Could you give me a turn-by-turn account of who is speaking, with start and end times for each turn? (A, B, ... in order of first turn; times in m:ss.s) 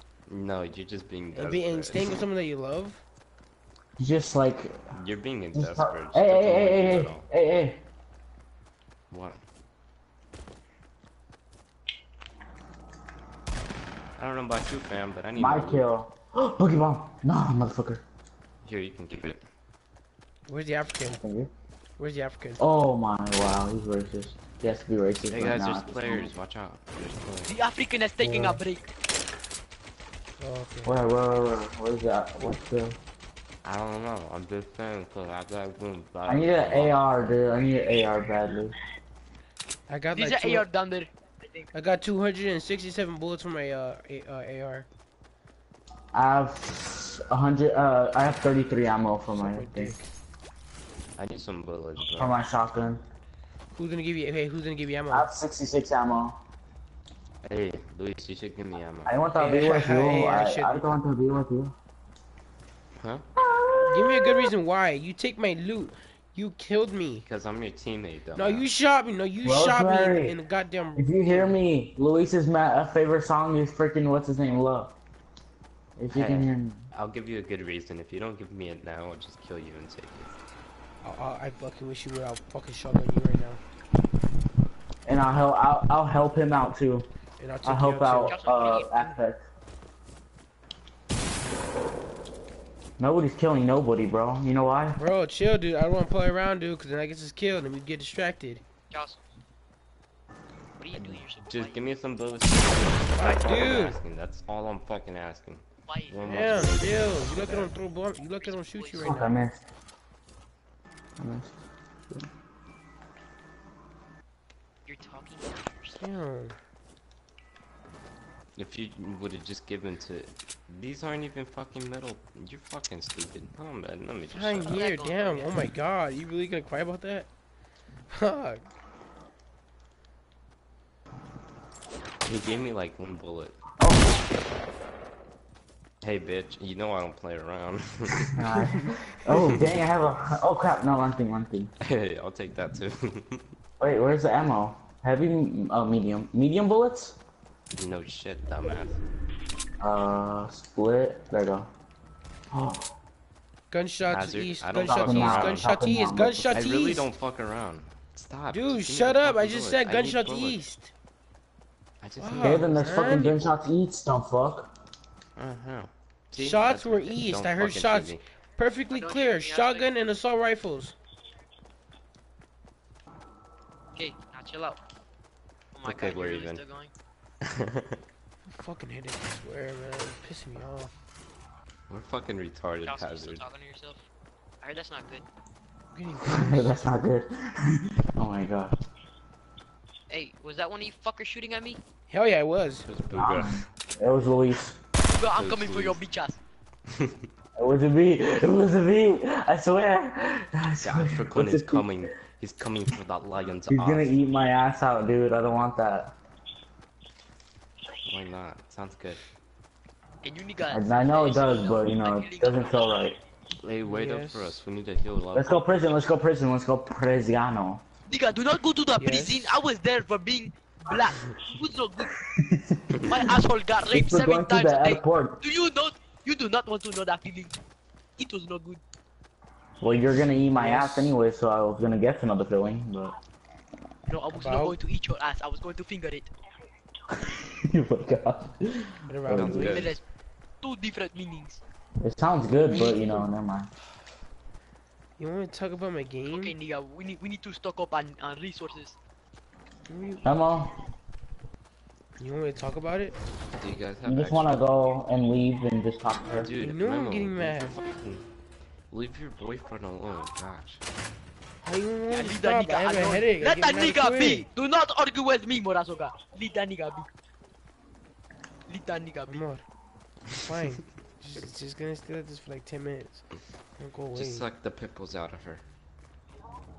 0:00.3-0:02.2 A
0:01.3-0:03.0 B
0:04.0-0:04.8 C
0:04.9-0:07.3 A
0:05.5-0:07.8 C
0:09.1-0:09.4 A
0:14.2-0:15.8 A
0:15.4-0:18.0 C
0:18.6-0:19.4 A
0:20.5-0:21.2 B
0:21.0-0:21.5 C
0:22.0-0:22.6 B
0:22.6-0:26.3 C
0:25.3-0:27.5 A
0:27.4-0:28.9 D
0:28.2-0:28.6 C
0:30.4-0:31.0 B
0:30.8-0:33.0 C
0:33.6-0:37.0 A
0:36.2-0:38.7 C
0:39.9-0:40.7 B
0:40.1-0:41.7 D
0:41.7-0:44.9 B
0:46.1-0:49.9 C
0:49.4-0:50.0 B
0:51.2-0:52.4 A
0:52.1-0:53.0 C
0:53.7-0:55.3 B
0:55.1-0:56.4 C
0:57.4-0:59.2 A
0:59.0-1:01.7 C
0:59.4-1:00.9 B
1:03.0-1:03.3 A
1:03.4-1:04.3 C
1:03.7-1:07.2 B
1:07.2-1:08.7 A
1:08.3-1:11.6 B
1:09.4-1:10.4 C
1:11.0-1:14.9 C
1:16.0-1:16.8 C
1:16.1-1:20.3 A
1:21.0-1:23.6 B
1:25.0-1:27.1 C
1:27.4-1:29.1 B
1:27.6-1:29.4 C
1:28.2-1:29.1 D
1:33.0-1:35.0 C
1:35.0-1:38.6 B
1:38.9-1:39.2 D
1:40.8-1:41.8 D
1:40.9-1:47.7 A
1:43.2-1:44.0 B
1:45.9-1:46.7 D
1:46.2-1:49.3 B
1:47.3-1:47.6 D
1:48.2-1:49.3 D
1:49.0-1:49.6 C
1:51.2-1:52.3 C
1:54.8-1:56.0 D
1:56.0-1:56.6 B
1:58.6-2:04.8 A
2:04.3-2:07.3 B
2:04.6-2:05.5 D
2:08.1-2:08.6 B
2:12.2-2:13.6 A
2:13.8-2:14.1 C
2:16.0-2:18.8 A
2:18.3-2:21.7 C
2:19.3-2:19.7 A
2:21.8-2:23.5 A
2:23.8-2:27.2 C
2:27.7-2:29.0 A
2:29.8-2:31.7 C
2:32.5-2:32.9 C
2:33.7-2:37.0 B
2:34.1-2:35.7 A
2:34.8-2:36.5 C
2:36.5-2:40.7 A
2:38.5-2:40.9 B
2:42.0-2:43.5 A
2:42.2-2:43.3 B
2:42.4-2:44.7 C
2:45.4-2:48.2 A
2:46.3-2:50.9 B
2:48.9-2:49.9 D
2:53.9-2:54.8 D
2:55.7-2:56.9 D
2:55.8-2:56.6 A
2:57.4-2:58.0 A
2:58.5-3:00.9 B
3:01.9-3:03.4 A
3:02.8-3:04.0 D
3:04.6-3:05.2 D
3:05.9-3:06.8 B
3:06.2-3:08.7 C
3:10.1-3:11.8 D
3:12.1-3:12.9 B
3:12.8-3:13.6 A
3:13.1-3:14.8 C
3:15.0-3:16.4 D
3:15.3-3:16.0 A
3:16.9-3:17.2 A
3:17.6-3:21.9 C
3:20.8-3:24.1 A
3:23.7-3:26.1 C
3:28.0-3:29.2 A
3:30.2-3:32.9 D
3:30.6-3:33.2 C
3:33.6-3:35.9 A
3:33.9-3:34.6 B
3:35.3-3:37.8 C
3:38.1-3:42.1 D
3:39.0-3:39.5 B
3:42.2-3:43.2 C
3:43.1-3:47.5 D
3:43.9-3:45.4 C
3:48.2-3:48.8 D
3:49.8-3:53.2 C
3:50.6-3:51.1 B
3:54.1-3:56.3 D
3:54.3-3:54.8 B
3:57.2-3:59.8 C
3:59.1-3:59.9 B
3:59.3-4:00.0 A
3:59.6-4:00.0 D
4:00.6-4:01.6 D
4:02.0-4:03.7 C
4:02.7-4:03.2 B
4:05.2-4:06.5 B
4:06.3-4:09.0 D
4:09.9-4:10.2 B
4:10.2-4:10.7 C
4:12.2-4:13.2 B
4:13.6-4:14.6 A
4:14.0-4:16.5 C
4:16.3-4:18.2 A
4:16.6-4:17.8 B
4:18.9-4:20.8 A
4:21.6-4:24.5 B
4:22.1-4:27.1 D
4:28.7-4:29.4 D
4:29.3-4:29.6 B
4:30.4-4:34.4 B
4:34.1-4:35.6 A